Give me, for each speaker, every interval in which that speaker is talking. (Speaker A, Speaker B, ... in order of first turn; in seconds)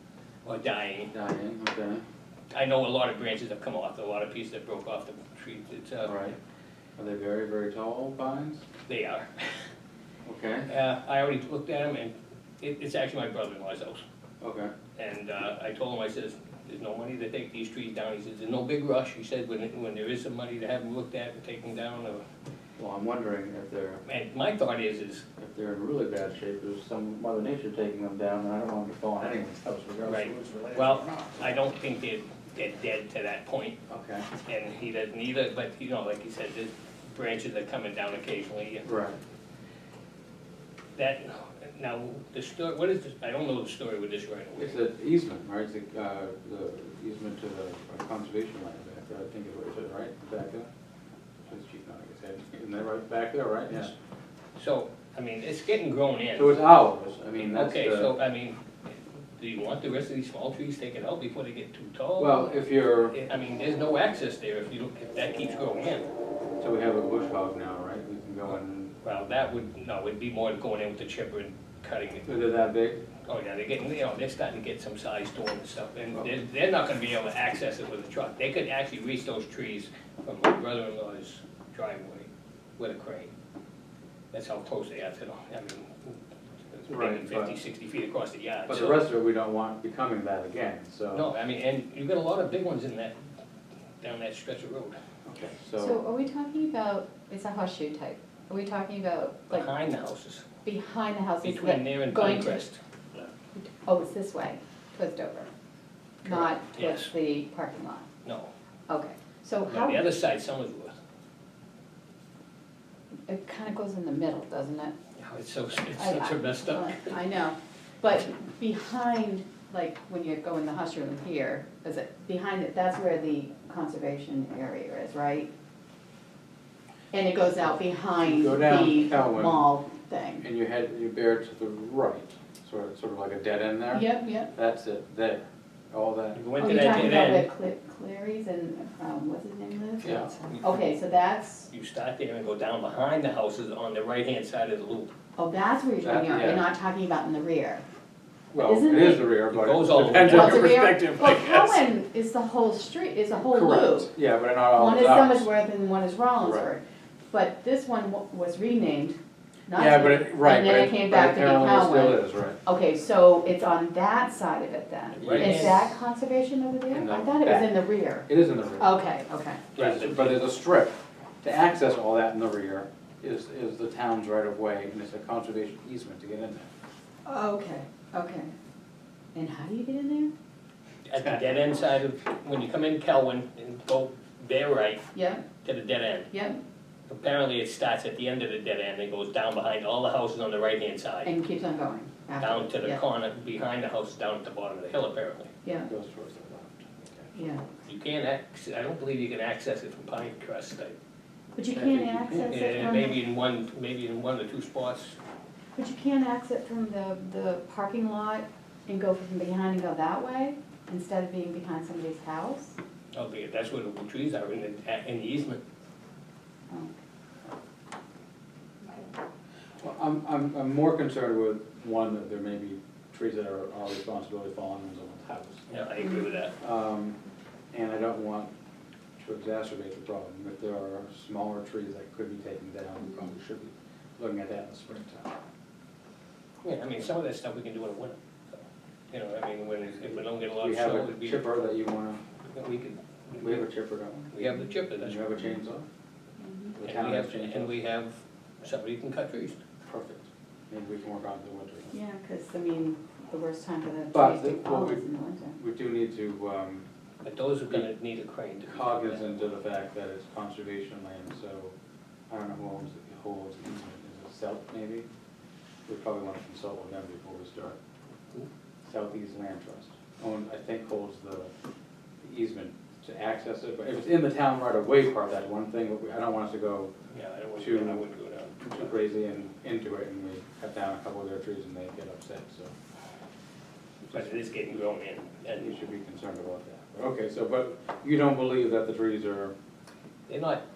Speaker A: 0.4-1.1, 2.5-6.1, 8.9-9.5, 10.7-14.0, 14.9-22.2, 24.0-25.2, 30.0-33.8, 34.3-38.8, 41.0-44.8, 54.5-56.6, 57.4-58.6, 59.4-66.1, 69.0-72.3, 73.3-83.3, 84.3-86.2, 86.7-89.0, 91.1-93.2, 94.0-95.0, 99.5-100.4, 101.4-102.8, 106.2-107.1, 108.2-108.5, 109.7-111.0, 115.2-117.2, 136.3-137.5, 140.0-140.8, 141.7-145.1, 149.5-150.9, 165.2-165.8, 169.7-170.5, 181.1-185.1, 185.6-186.3, 187.1-191.3, 192.4-195.5, 197.8-201.0, 202.5-205.2, 213.1-215.6, 225.7-226.5, 236.6-241.5, 242.4-243.6, 244.3-245.2, 246.8-249.6, 257.2-259.4, 277.1-278.9, 284.1-285.8, 290.3-290.6
Speaker B: 1.1-2.0, 6.0-6.3, 7.0-8.7, 10.2-10.7, 14.4-14.7, 22.8-24.0, 25.4-31.6, 33.9-34.3, 38.8-39.2, 44.6-50.7, 51.5-53.9, 56.3-58.2, 62.2-63.2, 66.6-68.9, 72.2-73.0, 86.9-87.5, 88.7-91.3, 95.2-96.0, 128.2-129.7, 130.4-136.5, 140.0-140.3, 146.0-146.7, 148.5-151.8, 153.5-155.5, 156.4-156.7, 159.7-162.6, 165.2-165.8, 166.9-168.9, 169.8-176.7, 195.8-197.3, 201.7-202.8, 219.8-225.7, 226.6-227.2, 227.7-228.5, 229.2-235.3, 240.1-242.2, 243.4-244.3, 245.0-245.8, 246.7-247.8, 249.8-251.9, 254.1-256.8, 258.6-261.7, 262.3-265.1, 265.9-267.8, 268.8-271.5, 272.2-276.9, 277.6-278.0, 278.6-282.7, 284.1-284.5, 285.5-289.5
Speaker C: 95.8-99.7, 100.6-102.6, 103.6-105.5, 106.2-108.1, 108.9-110.0, 113.3-114.9, 115.9-125.5, 127.1-130.4, 133.9-134.5, 136.6-141.7, 145.3-147.8, 148.6-149.3, 150.2-154.1, 154.7-169.6, 177.2-178.5, 179.3-180.3, 185.1-185.5, 186.3-186.6, 191.2-193.0, 195.6-195.9, 197.3-197.6, 201.5-203.2, 205.7-212.8, 216.7-216.9, 246.4-246.8, 251.9-255.6